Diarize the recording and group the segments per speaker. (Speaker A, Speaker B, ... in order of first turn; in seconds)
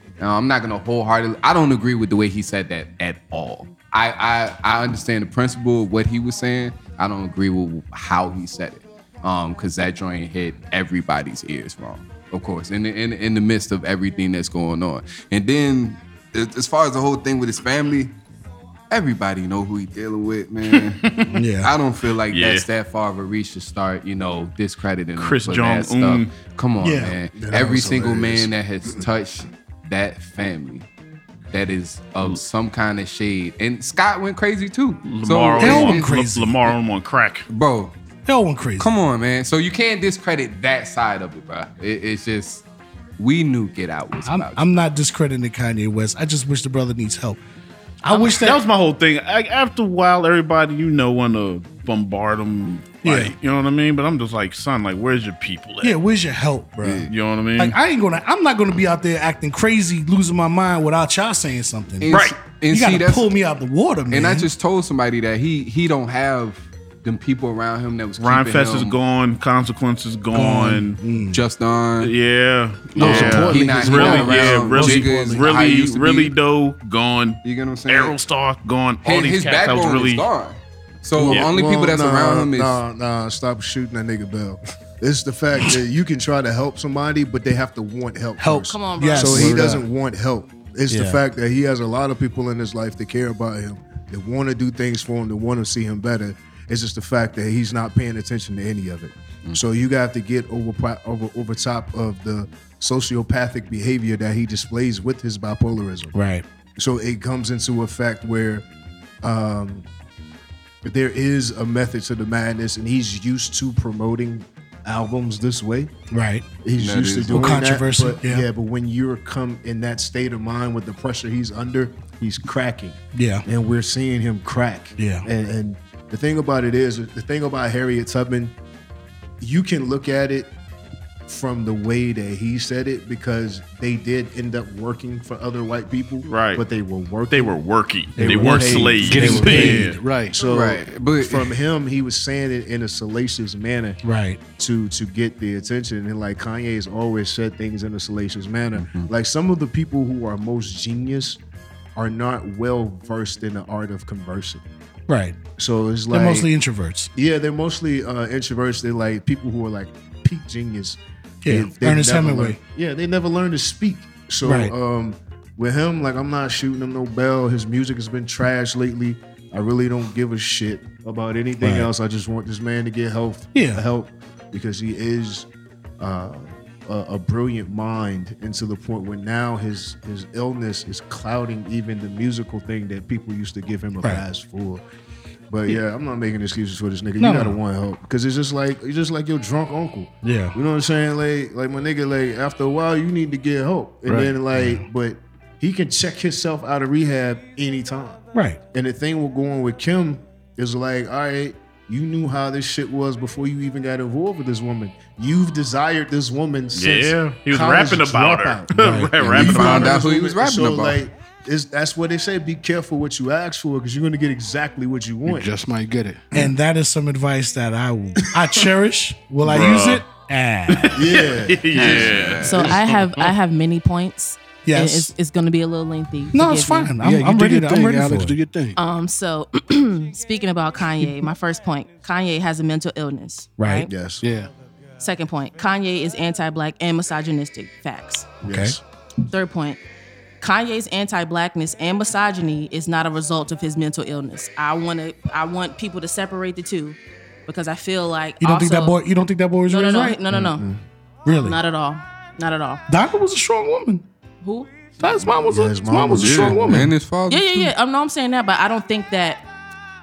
Speaker A: 0.2-18.1, 18.9-21.0, 21.6-30.9, 31.5-36.1, 37.5-37.9, 38.8-42.6, 43.2-44.7, 56.8-57.1, 62.0-63.3, 64.1-69.0, 71.3-72.1, 72.9-76.3, 77.4-78.2, 79.0-82.8, 116.8-117.6, 140.4-141.5, 148.8-149.1, 209.2-211.0, 221.8-222.8, 256.1-257.7
Speaker B: 20.7-21.3, 22.3-22.7, 25.2-26.3, 35.0-37.5, 48.2-55.9, 57.1-57.8, 68.2-71.0, 72.0-80.2, 136.3-136.7, 137.3-140.0, 206.7-210.0, 219.4-220.0, 220.7-222.6
Speaker C: 21.3-21.7, 26.8-27.2, 35.6-36.7, 38.3-38.9, 44.3-47.4, 48.0-48.6, 53.0-53.4, 55.8-64.5, 70.3-71.4, 73.9-75.6, 88.4-89.9, 90.9-91.2, 106.1-106.5, 116.1-116.5, 117.3-118.5, 123.1-123.4, 125.0-125.3, 138.2-139.9, 144.0-144.4, 155.1-155.4, 156.1-157.1, 161.4-162.6, 164.4-164.7, 171.6-171.9, 173.5-173.8, 187.2-187.6, 190.2-190.6, 194.5-194.9, 198.3-198.6, 208.8-209.2, 216.3-221.1, 224.7-225.1, 226.3-228.4, 233.6-233.9, 238.5-238.8, 248.4-250.2, 251.2-251.6, 252.9-254.1, 255.0-256.9
Speaker D: 27.4-29.0, 81.2-106.2, 106.8-108.7, 109.2-109.9, 110.8-115.9, 116.6-128.5, 129.4-130.5, 131.3-137.6, 138.2-144.0, 144.6-151.4, 152.0-154.6, 155.6-156.5, 157.2-175.5, 176.0-184.8, 185.5-198.2, 198.7-215.5, 220.9-222.1, 233.8-234.2, 238.4-238.8, 250.3-250.8, 255.4-256.9
Speaker E: 73.0-74.6, 139.0-140.4, 194.1-194.4, 215.3-216.3, 227.0-228.8, 234.2-234.5
Speaker F: 88.7-89.5, 221.7-226.9, 228.8-233.9, 235.0-238.3, 239.3-239.8, 240.4-249.0, 249.7-250.6, 251.4-252.8, 254.4-254.7, 257.3-259.4